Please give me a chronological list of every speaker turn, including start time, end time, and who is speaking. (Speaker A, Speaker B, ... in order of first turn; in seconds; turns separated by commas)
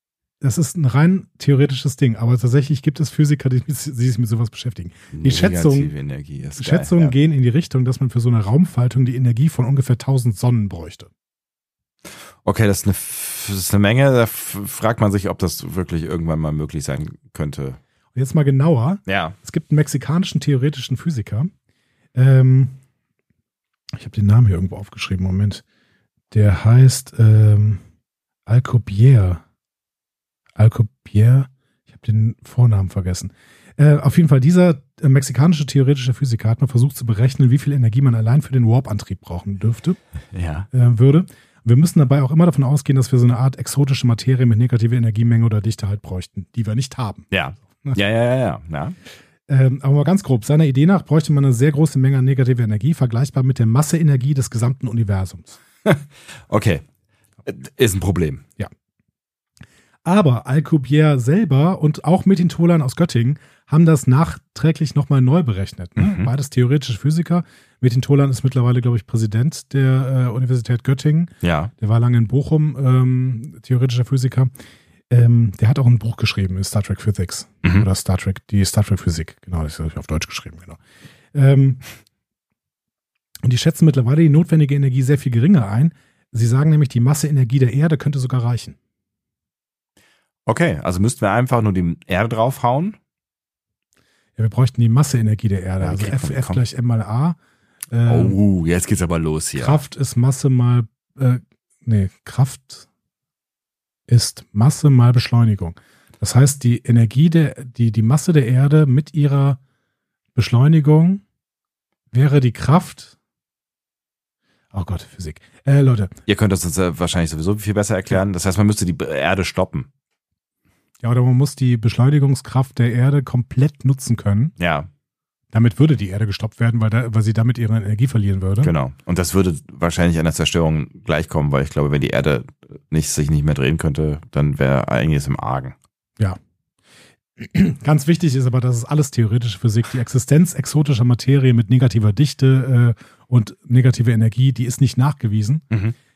Speaker A: 0.4-5.9, Speaker B: 5.1-7.2, Speaker A: 6.6-11.1, Speaker B: 12.4-17.8, Speaker A: 18.1-21.5, Speaker B: 19.1-19.4, Speaker A: 22.1-22.8, Speaker A: 23.9-25.6, Speaker A: 26.3-27.8, Speaker A: 28.4-29.4, Speaker A: 30.6-40.0, Speaker B: 40.3-40.7, Speaker A: 40.7-48.0, Speaker B: 47.3-49.0, Speaker A: 49.5-55.6, Speaker B: 55.8-56.8, Speaker B: 57.4-58.4, Speaker A: 60.0-74.5, Speaker B: 66.0-66.3, Speaker B: 71.4-71.7, Speaker A: 75.1-80.8, Speaker A: 81.3-81.8, Speaker A: 83.4-88.8, Speaker B: 90.5-93.0, Speaker A: 94.4-97.4, Speaker B: 95.8-96.6, Speaker A: 97.9-98.4, Speaker B: 98.0-99.8, Speaker A: 99.5-102.9, Speaker A: 104.1-109.6, Speaker A: 110.3-111.2, Speaker A: 112.1-113.1, Speaker A: 114.7-116.1, Speaker B: 116.3-119.9, Speaker A: 121.0-124.5, Speaker B: 124.6-124.9, Speaker A: 125.5-128.7, Speaker B: 128.6-135.8, Speaker A: 137.4-145.6